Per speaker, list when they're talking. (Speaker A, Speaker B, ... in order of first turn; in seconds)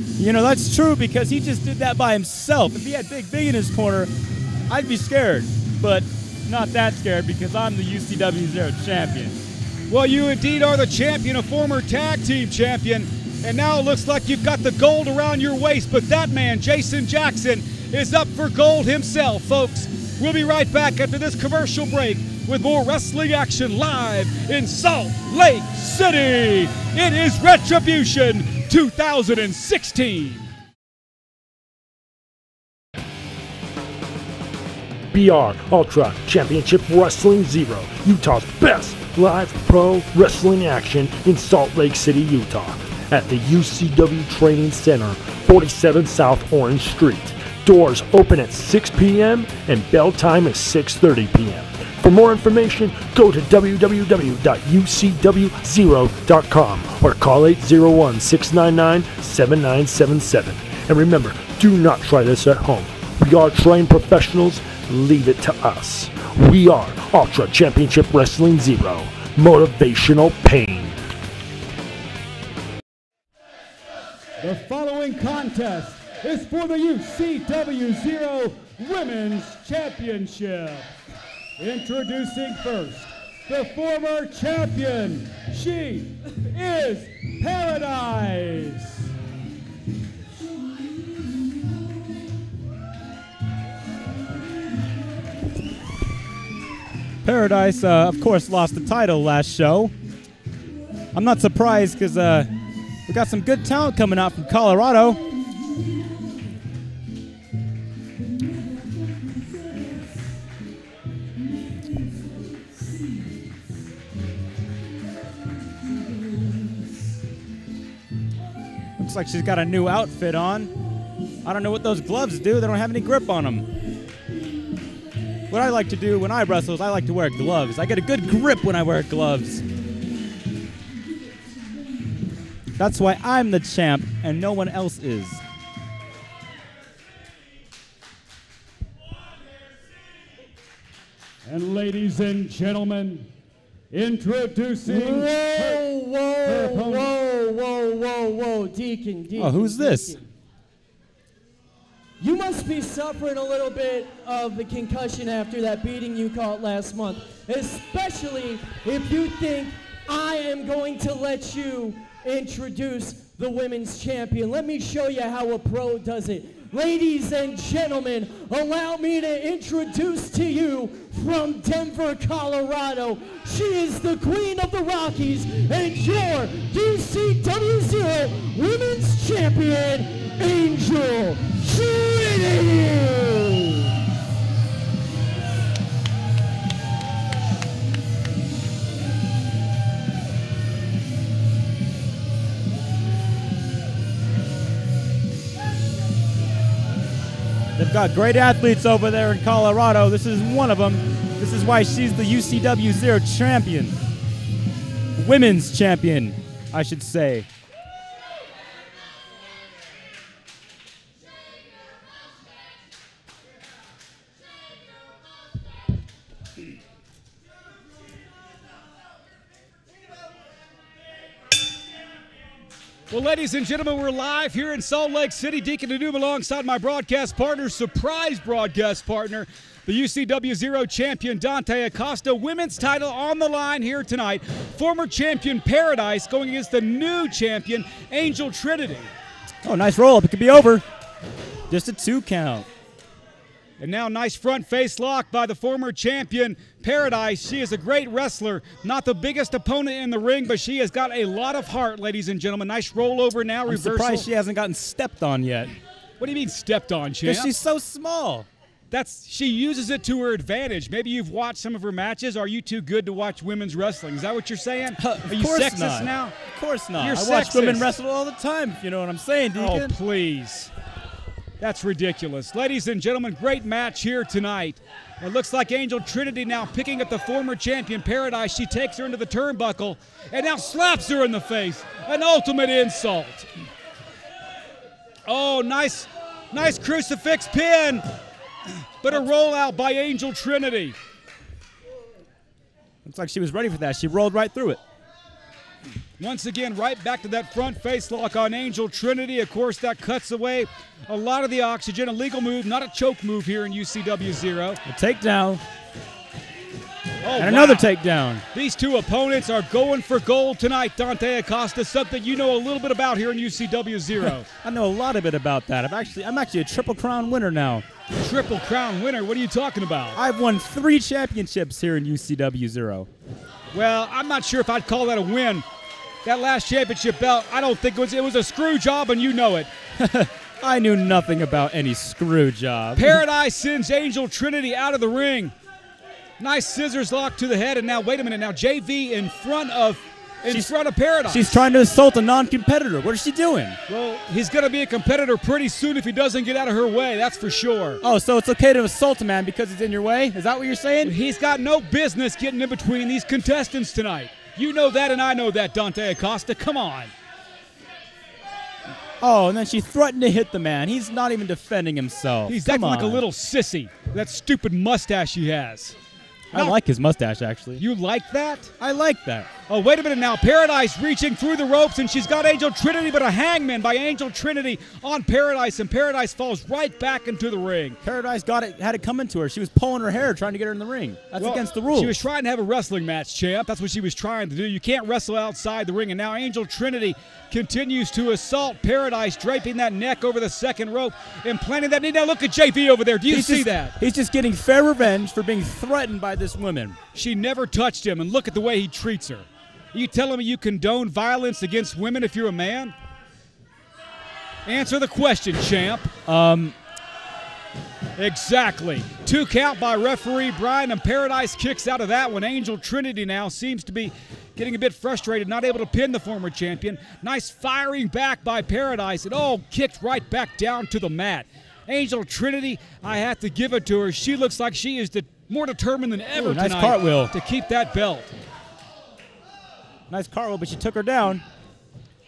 Speaker A: 0.2-4.1, 4.7-9.4, 97.2-99.9, 101.1-102.5, 103.1-105.2, 119.0-120.7, 121.4-123.7, 125.5-129.6, 132.8-135.4, 149.3-150.2, 197.8-204.0, 205.2-207.5, 239.6-240.8, 241.7-242.7, 253.7-255.7, 257.2-258.4, 265.0-269.9, 293.0-294.8, 304.9-305.6, 307.4-308.4, 314.6-317.8, 320.1-323.1, 330.0-333.2, 341.3-343.8, 348.0-351.1, 359.2-363.2, 366.5-367.8, 368.8-369.5, 378.0-382.2, 393.3-397.0, 406.3-406.7, 426.4-427.3, 430.1-431.4
Speaker B: 9.9-30.5, 74.4-80.9, 81.6-89.1, 141.4-143.3, 143.9-145.8, 146.4-147.1, 223.1-239.1, 243.8-254.3, 256.2-257.5, 258.9-266.4, 267.0-267.9, 269.6-270.7, 271.6-283.5, 285.2-288.0, 289.0-290.9, 296.2-304.8, 307.2-307.9, 308.5-314.5, 318.2-320.2, 323.7-325.6, 326.2-329.7, 333.0-335.5, 336.4-341.6, 343.9-348.0, 351.0-357.1, 362.5-366.0, 367.8-368.7, 369.7-378.0, 381.4-393.9, 397.1-402.9, 404.6-406.1, 408.2-428.3
Speaker C: 35.1-71.0
Speaker D: 144.8-150.3, 152.2-183.9